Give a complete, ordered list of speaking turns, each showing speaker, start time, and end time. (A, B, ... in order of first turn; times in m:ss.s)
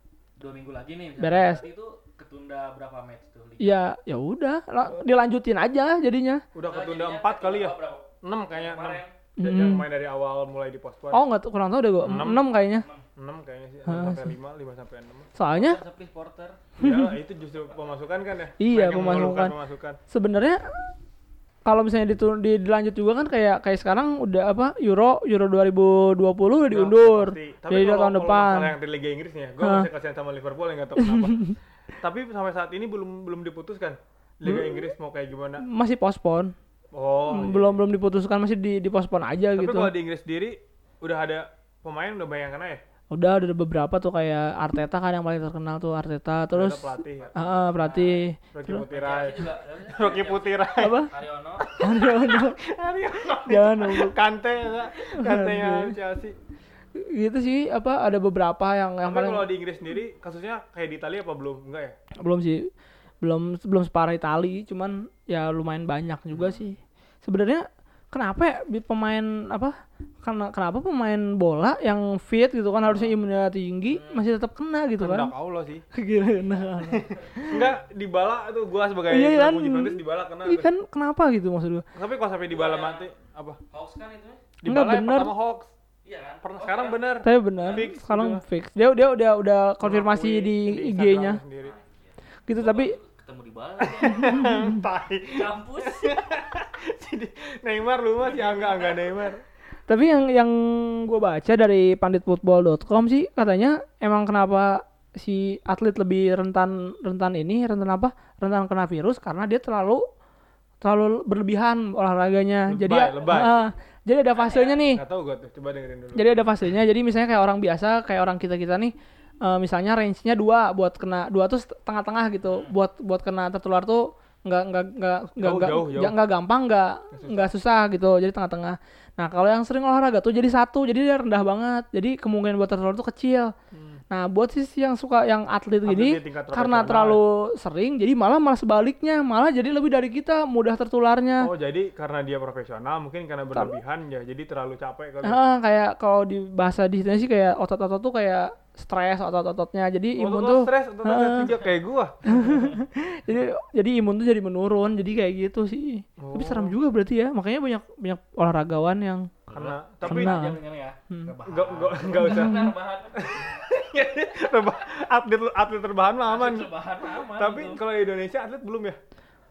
0:00.4-0:03.8 A
0:01.2-0:01.6 B
0:03.6-0:06.4 B
0:06.6-0:11.2 C
0:06.7-0:09.1 A
0:09.4-0:09.8 B
0:11.1-0:12.9 B
0:12.0-0:12.4 C
0:12.7-0:13.0 A
0:13.2-0:15.3 C
0:13.9-0:14.3 B
0:15.4-0:15.8 B
0:15.5-0:16.7 A
0:16.8-0:20.0 C
0:16.8-0:17.2 B
0:18.6-0:19.5 B
0:20.1-0:20.6 B
0:21.6-0:28.7 B
0:26.7-0:35.6 C
0:29.6-0:29.9 B
0:31.0-0:31.5 B
0:34.4-0:34.9 B
0:35.6-0:36.5 B
0:36.9-0:37.8 C
0:37.3-0:39.9 B
0:39.6-0:42.8 C
0:43.1-0:48.8 B
0:46.5-0:47.6 C
0:47.8-0:48.2 A
0:48.5-0:51.0 C
0:48.9-0:51.8 A
0:50.8-0:51.1 B
0:51.8-0:56.3 C
0:51.8-0:52.6 B
0:53.5-0:54.1 B
0:55.2-0:56.0 B
0:57.0-0:59.5 B
0:59.0-1:02.0 C
1:02.2-1:02.7 B
1:03.2-1:15.3 B
1:12.8-1:13.1 C
1:13.9-1:14.2 A
1:15.0-1:15.8 C
1:15.9-1:17.7 B
1:16.8-1:17.3 A
1:17.4-1:20.7 C
1:19.1-1:21.8 B
1:22.0-1:23.6 C
1:22.5-1:23.1 A
1:23.7-1:24.5 A
1:24.6-1:25.7 C
1:24.7-1:25.3 B
1:26.0-1:27.9 A
1:26.4-1:28.4 C
1:27.2-1:31.4 B
1:29.8-1:31.7 C
1:31.6-1:34.5 A
1:32.5-1:33.0 B
1:33.8-1:39.4 C
1:34.2-1:34.8 B
1:35.3-1:36.3 A
1:38.3-1:39.0 A
1:39.9-1:50.0 B
1:50.8-1:55.0 B
1:52.7-1:53.6 C
1:54.3-1:54.8 A
1:54.9-1:56.5 C
1:56.2-2:13.5 B
2:02.5-2:02.7 A
2:05.4-2:06.2 C
2:07.1-2:07.5 C
2:13.7-2:14.0 C
2:14.1-2:21.5 B
2:15.8-2:17.2 C
2:21.4-2:25.4 C
2:25.2-2:31.5 B
2:30.2-2:32.2 C
2:32.2-2:39.3 B
2:36.2-2:36.8 C
2:39.5-2:43.6 A
2:39.5-2:40.4 C
2:40.0-2:41.3 B
2:41.5-2:46.7 C
2:42.3-2:42.6 B
2:46.3-2:47.8 A
2:47.3-2:49.0 C